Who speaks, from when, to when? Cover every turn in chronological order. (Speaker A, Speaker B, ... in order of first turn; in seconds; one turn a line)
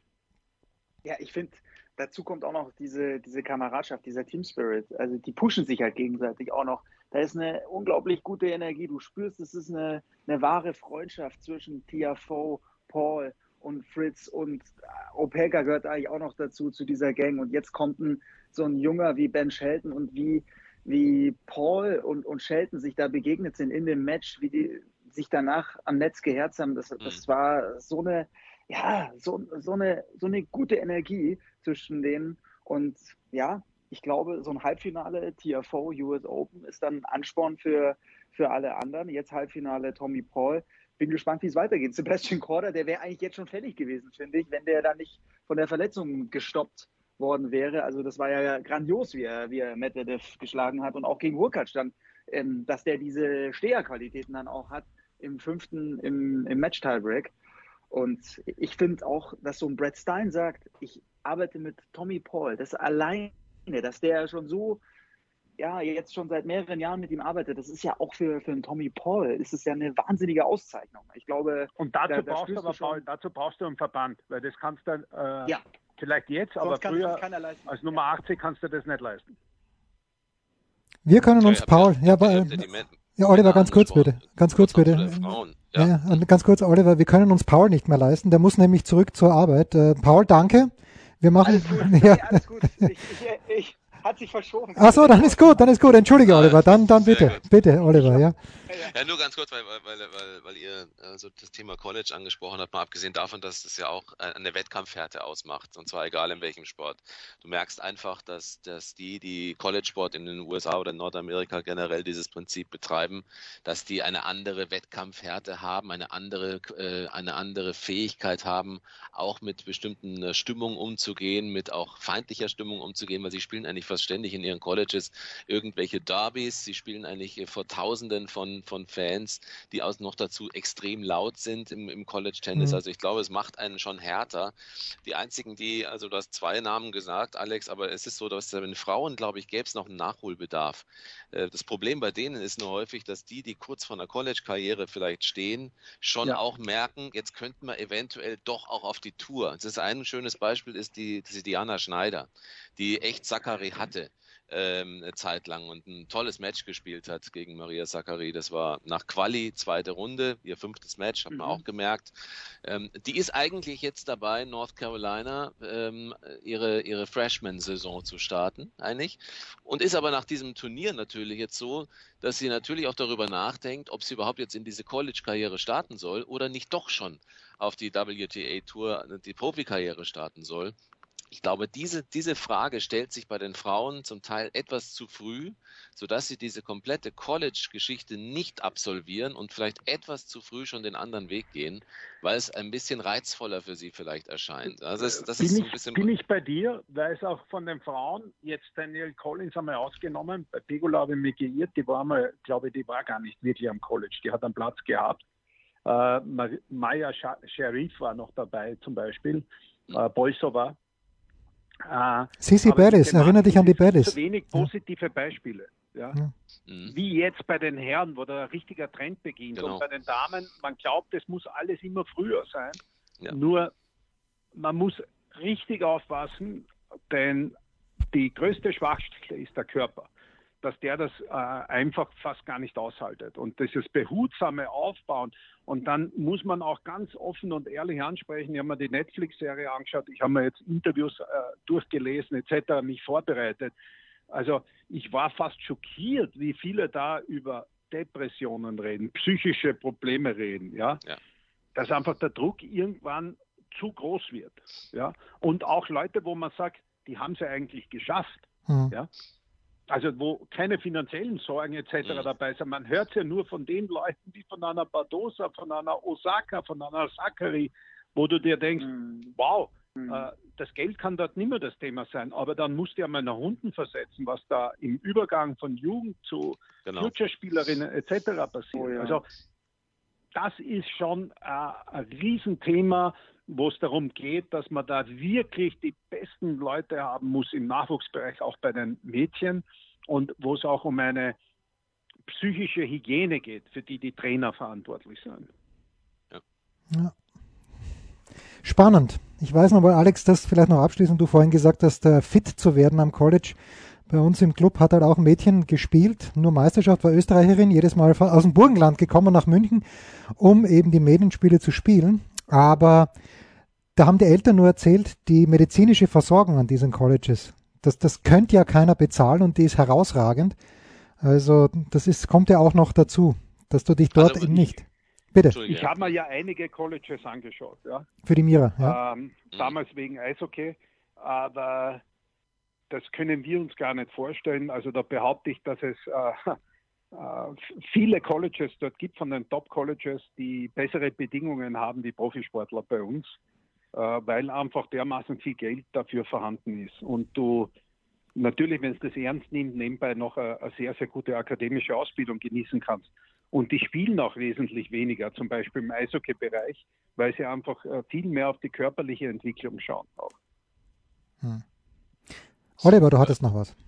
Speaker A: 1.0-57.3
Speaker A: 57.9-64.8
Speaker A: 65.6-73.0
Speaker B: 71.8-79.3
Speaker A: 76.6-77.7
Speaker C: 81.0-92.9
Speaker D: 81.4-86.2
Speaker A: 91.4-95.7
Speaker C: 94.8-98.3
Speaker D: 96.2-97.4
Speaker D: 98.7-162.1
Speaker A: 161.3-161.6
Speaker D: 162.6-180.7
Speaker D: 181.3-196.1
Speaker B: 195.0-205.2
Speaker B: 205.8-210.8
Speaker B: 211.8-216.2
Speaker C: 212.4-214.7
Speaker D: 216.7-216.9
Speaker B: 216.8-222.8
Speaker D: 219.6-219.8
Speaker B: 223.3-223.7
Speaker B: 224.5-227.5
Speaker B: 228.1-230.1
Speaker B: 230.6-243.7
Speaker B: 244.3-251.0
Speaker B: 251.7-259.1
Speaker B: 259.9-279.2
Speaker A: 268.9-269.3
Speaker A: 269.9-270.2
Speaker D: 276.9-277.1
Speaker A: 278.7-279.2
Speaker B: 280.3-291.4
Speaker B: 292.3-295.5
Speaker C: 298.6-303.6
Speaker C: 304.1-313.1
Speaker C: 313.9-320.6
Speaker C: 321.2-325.6
Speaker D: 324.1-324.7
Speaker D: 325.5-326.1
Speaker B: 325.6-328.1
Speaker C: 328.2-329.0
Speaker B: 328.8-332.0
Speaker B: 332.9-336.6
Speaker B: 337.1-343.3
Speaker B: 343.9-347.7
Speaker B: 348.4-360.3
Speaker C: 362.8-363.7